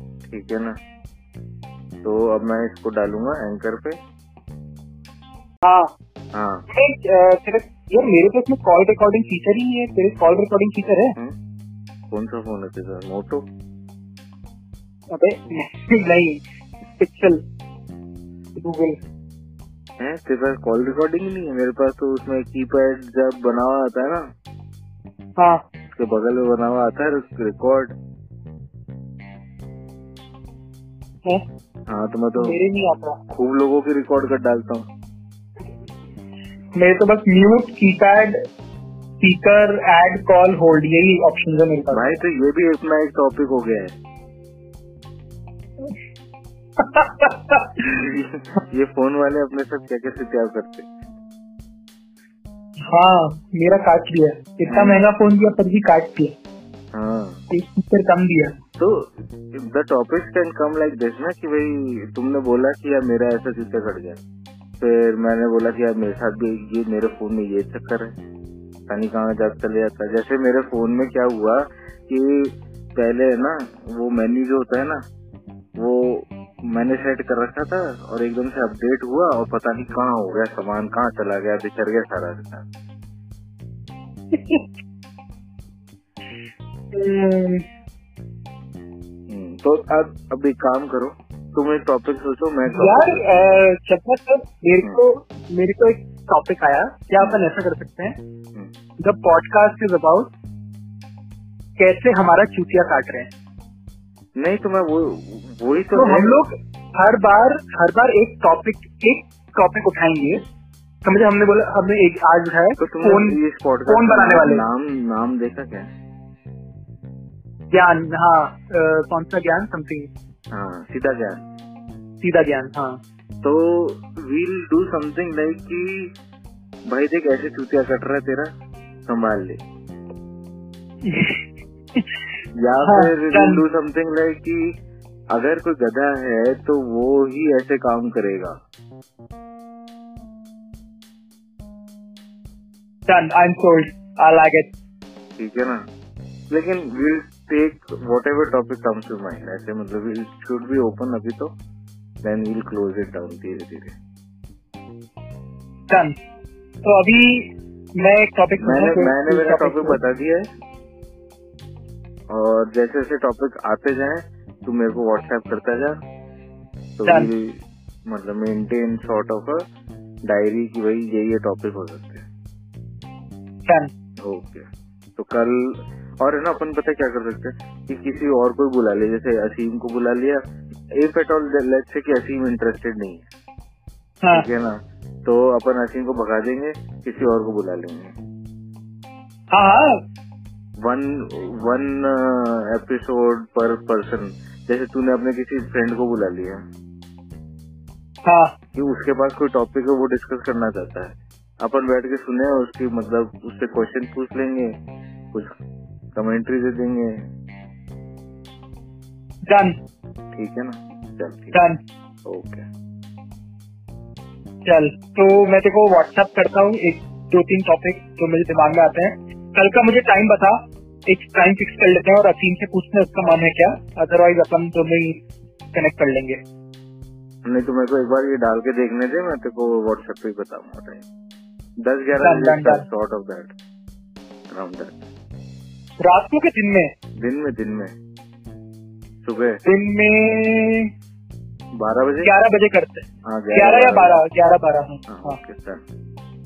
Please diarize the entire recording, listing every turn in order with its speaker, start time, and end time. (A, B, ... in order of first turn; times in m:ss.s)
0:00.3-0:00.7 A
0:02.0-0:04.0 A
0:05.6-0:05.9 B
0:06.3-0:06.6 A
0:06.7-0:11.2 B
0:12.1-0:13.4 A
0:15.1-0:16.4 B
0:17.0-0:17.4 B
0:18.6-0:19.0 B
0:20.0-0:24.2 A
0:26.0-0:27.9 A
0:31.9-0:32.6 A
0:32.4-0:33.2 B
0:33.3-0:34.8 A
0:36.8-0:38.4 B
0:39.2-0:42.1 B
0:41.9-0:43.9 A
0:46.8-0:47.7 B
0:47.8-0:50.9 A
0:52.9-0:56.3 B
0:54.7-0:55.0 A
0:56.9-0:57.4 A
0:57.5-0:58.5 B
0:58.8-1:04.2 A
1:04.8-1:08.1 A
1:08.9-1:15.0 A
1:15.8-1:22.6 A
1:24.3-1:24.6 B
1:26.9-1:27.6 B
1:29.3-1:33.6 A
1:32.7-1:38.2 B
1:39.0-1:40.3 B
1:41.8-1:43.3 B
1:44.4-1:46.4 A
1:46.0-1:50.4 B
1:51.0-1:54.6 B
1:52.8-1:55.9 A
1:57.7-2:00.1 B
2:00.5-2:01.4 A
2:02.2-2:03.0 B
2:03.4-2:06.1 A
2:06.9-2:08.5 A
2:09.1-2:09.6 A
2:11.0-2:11.3 B
2:12.6-2:14.6 A
2:12.9-2:13.6 B
2:15.3-2:18.5 A
2:23.1-2:24.7 B
2:25.4-2:25.8 A
2:26.5-2:31.5 A
2:32.2-2:33.9 A
2:35.9-2:36.2 B
2:36.8-2:40.0 B
2:38.6-2:40.5 A
2:42.3-2:46.0 A
2:47.0-2:49.6 A
2:47.1-2:47.3 B
2:50.3-2:52.2 A
2:53.7-2:53.9 B
2:54.2-2:54.6 A
2:55.2-3:00.4 A
3:01.0-3:03.2 A
3:04.3-3:08.1 A
3:09.5-3:09.9 B
3:10.8-3:16.6 A
3:18.3-3:18.5 B
3:18.8-3:24.7 A
3:26.2-3:27.2 A
3:29.5-3:29.8 B
3:30.4-3:31.6 A
3:31.5-3:31.8 B
3:32.3-3:32.6 A
3:34.7-3:45.2 B
3:45.7-3:46.4 B
3:47.4-3:51.0 A
3:51.8-3:53.5 A
3:52.2-3:52.8 B
3:54.5-3:55.0 A
3:56.0-3:56.9 B
3:57.2-3:57.9 A
3:59.2-3:59.6 A
3:59.6-4:00.9 B
4:01.8-4:02.3 A
4:02.2-4:05.4 B
4:03.2-4:04.2 A
4:05.1-4:05.8 A